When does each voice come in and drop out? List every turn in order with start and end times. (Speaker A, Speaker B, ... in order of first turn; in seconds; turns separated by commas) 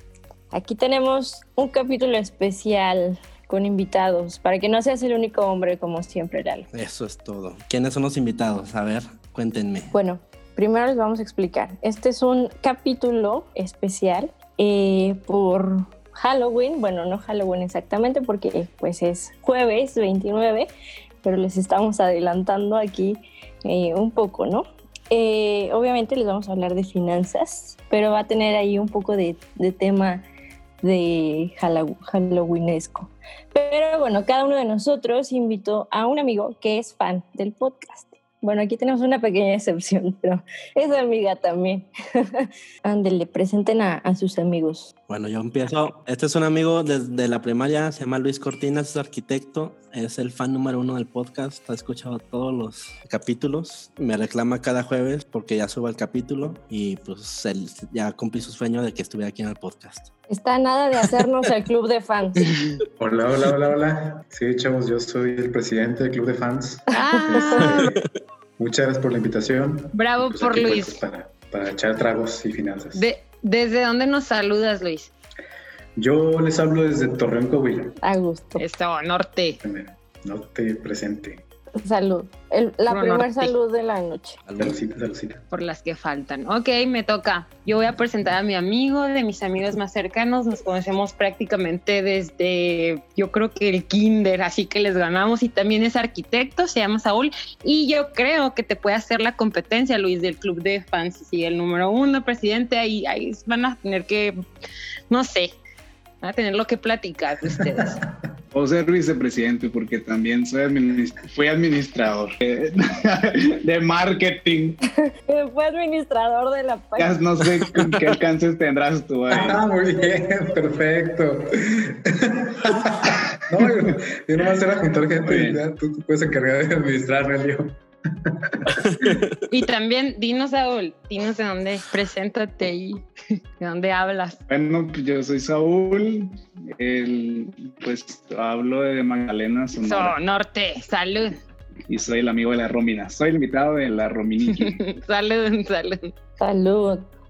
Speaker A: 0.5-6.7, Speaker B: 6.7-9.9, Speaker A: 9.9-20.7, Speaker A: 21.2-30.2, Speaker A: 30.8-44.9, Speaker B: 45.1-60.1, Speaker A: 60.3-62.5, Speaker C: 63.0-67.8, Speaker D: 66.9-67.7, Speaker A: 67.2-67.6, Speaker B: 67.5-68.1, Speaker C: 68.6-73.1, Speaker D: 69.9-71.0, Speaker D: 72.9-75.1, Speaker C: 76.0-77.9, Speaker A: 78.0-78.7, Speaker D: 78.6-79.6, Speaker C: 79.6-81.4, Speaker A: 81.8-84.4, Speaker D: 82.9-83.5, Speaker B: 84.5-84.8, Speaker C: 84.6-85.4, Speaker D: 85.5-104.4, Speaker D: 105.1-105.6, Speaker D: 106.2-108.0, Speaker E: 108.5-114.8, Speaker A: 115.0-117.1, Speaker E: 117.0-119.6, Speaker C: 119.3-127.7, Speaker E: 125.2-125.6, Speaker C: 128.3-128.7, Speaker B: 128.9-129.4, Speaker D: 129.5-133.0, Speaker D: 133.6-134.4, Speaker E: 134.5-140.2, Speaker D: 139.8-141.4, Speaker E: 141.9-144.8, Speaker D: 144.7-146.1, Speaker A: 146.4-147.1